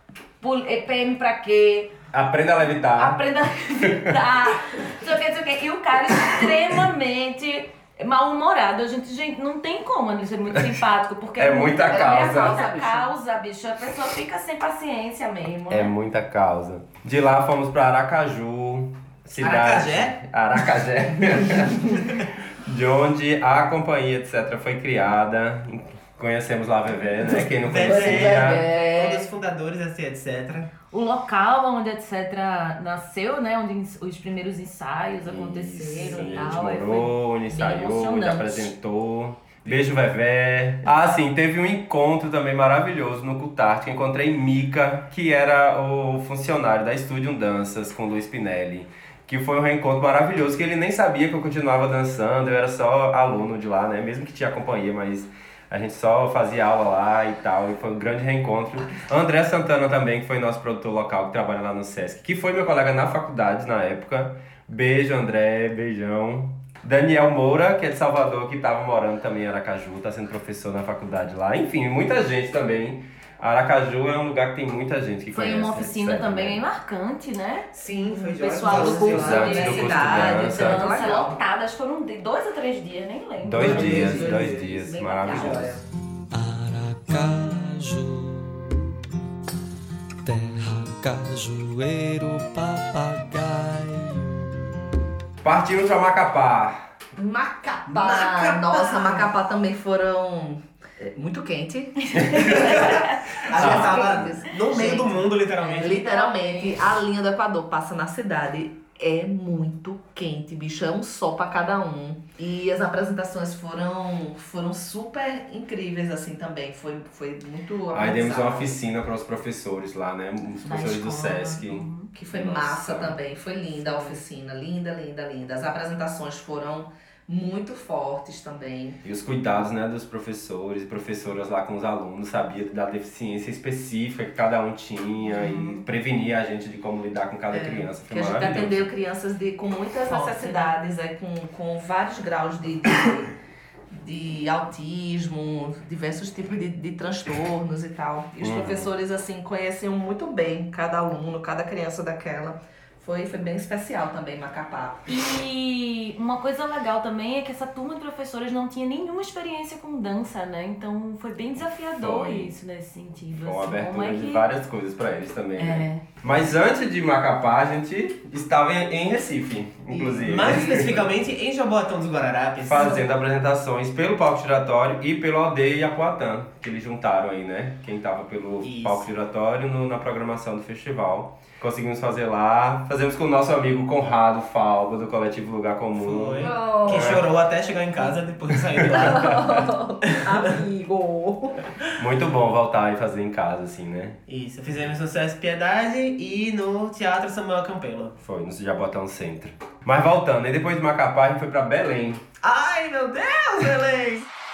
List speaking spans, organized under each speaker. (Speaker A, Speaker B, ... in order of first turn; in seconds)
Speaker A: 0.4-1.9, 3.0-15.9, 30.9-38.7, 75.3-85.7, 102.3-103.2, 105.6-106.9, 120.6-122.1, 135.2-135.8, 140.1-140.8, 155.1-164.4, 165.6-166.0
Speaker B: 2.1-3.2, 3.8-4.1, 11.4-12.6, 15.7-28.6, 35.2-76.6, 78.8-80.9, 83.4-85.8, 95.4-96.8, 102.2-102.5, 103.5-104.2, 117.9-123.2, 129.0-138.9, 148.4-148.9, 161.9-162.5, 163.4-171.1, 172.6-187.2, 188.8-189.5, 191.9-194.2, 198.2-202.2
Speaker C: 11.8-13.1, 27.3-29.3, 78.6-81.4, 83.6-84.4, 85.3-85.7, 97.2-118.7, 122.1-129.0, 137.5-143.3, 143.9-155.1, 169.9-171.0, 186.4-187.2, 188.8-191.7
Speaker D: 19.4-20.1, 27.6-30.7, 77.7-80.0, 83.6-85.8, 97.9-99.3, 102.4-106.0, 170.2-173.0, 178.6-179.1, 186.0-190.5, 194.3-198.1, 202.4-204.2
Speaker E: 86.3-88.8, 90.2-94.4